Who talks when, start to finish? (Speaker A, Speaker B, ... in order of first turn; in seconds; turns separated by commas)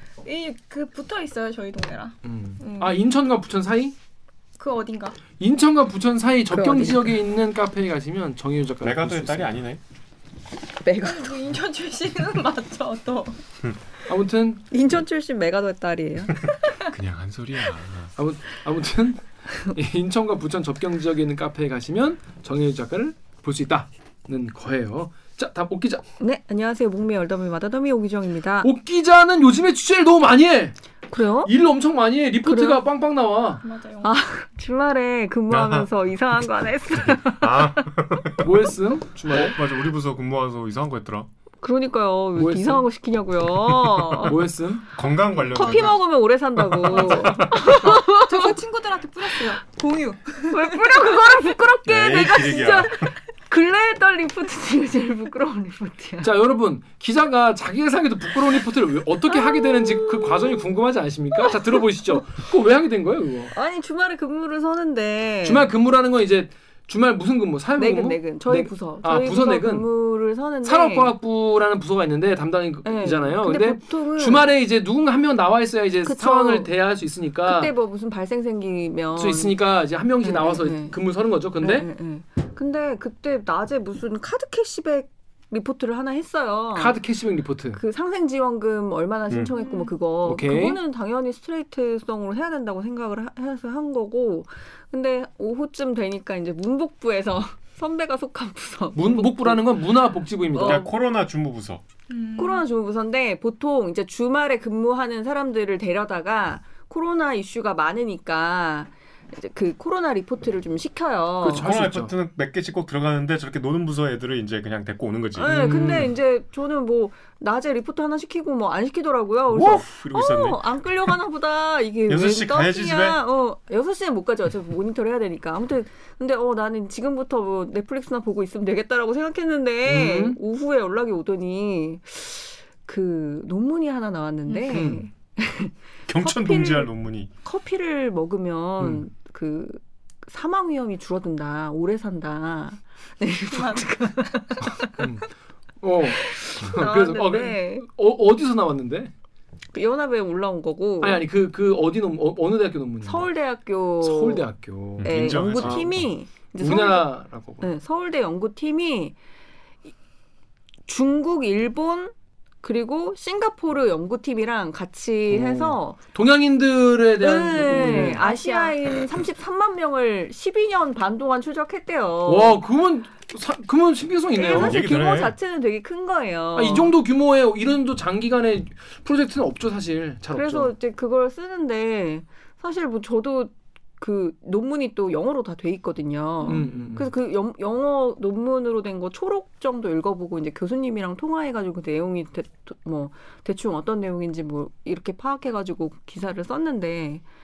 Speaker A: 0.2-3.0, Speaker B: 2.2-3.9, Speaker A: 4.6-5.2, Speaker B: 5.4-9.5, Speaker C: 6.5-7.1, Speaker D: 8.8-9.8, Speaker C: 10.8-11.3, Speaker A: 11.0-13.4, Speaker B: 14.1-14.6, Speaker C: 14.7-16.5, Speaker D: 16.9-18.1, Speaker B: 18.1-26.0, Speaker C: 26.2-28.7, Speaker B: 28.6-30.8, Speaker C: 31.1-31.5, Speaker B: 31.4-33.6, Speaker C: 32.4-32.8, Speaker A: 33.6-34.1, Speaker C: 34.0-37.9, Speaker D: 35.5-35.9, Speaker D: 37.0-38.5, Speaker B: 38.4-39.6, Speaker D: 39.3-41.3, Speaker C: 41.6-44.5, Speaker B: 42.4-42.8, Speaker D: 43.7-44.3, Speaker B: 44.2-44.8, Speaker D: 44.9-46.0, Speaker C: 45.5-48.6, Speaker D: 46.6-47.8, Speaker A: 47.5-51.2, Speaker C: 50.5-56.3, Speaker D: 51.8-53.1, Speaker B: 56.2-63.5, Speaker C: 59.2-60.6, Speaker C: 63.5-65.7, Speaker B: 65.4-69.9, Speaker C: 67.8-71.1, Speaker B: 70.6-77.7, Speaker C: 72.8-74.5, Speaker C: 76.0-76.7, Speaker C: 77.5-79.6, Speaker B: 79.1-81.9, Speaker C: 80.2-81.0, Speaker C: 81.6-87.0, Speaker B: 86.7-87.8, Speaker C: 87.8-99.8, Speaker D: 89.3-89.5, Speaker A: 89.5-89.9, Speaker B: 90.2-90.8, Speaker B: 98.9-100.9, Speaker C: 100.5-100.9, Speaker D: 100.6-101.8, Speaker A: 102.1-102.7, Speaker C: 102.4-111.7, Speaker B: 111.4-112.1, Speaker D: 111.5-115.5, Speaker C: 115.4-136.9, Speaker B: 115.4-116.1, Speaker D: 119.5-121.1, Speaker D: 122.1-123.2, Speaker B: 129.8-130.4, Speaker A: 134.5-134.8, Speaker B: 134.7-135.1, Speaker D: 136.1-137.3, Speaker C: 137.4-145.0, Speaker A: 143.5-143.8, Speaker B: 145.0-145.3, Speaker B: 145.8-149.1, Speaker C: 146.2-147.9, Speaker C: 149.7-151.2, Speaker B: 151.0-153.3, Speaker C: 153.0-154.4, Speaker B: 154.0-155.9, Speaker D: 155.0-156.1, Speaker C: 155.0-159.1, Speaker B: 156.6-157.7, Speaker C: 160.9-166.0, Speaker B: 165.3-168.2, Speaker C: 167.2-172.6, Speaker A: 167.6-168.9, Speaker B: 172.2-174.8, Speaker C: 174.3-176.9, Speaker D: 174.5-175.3, Speaker B: 176.5-180.7, Speaker C: 180.3-197.2, Speaker B: 186.4-187.1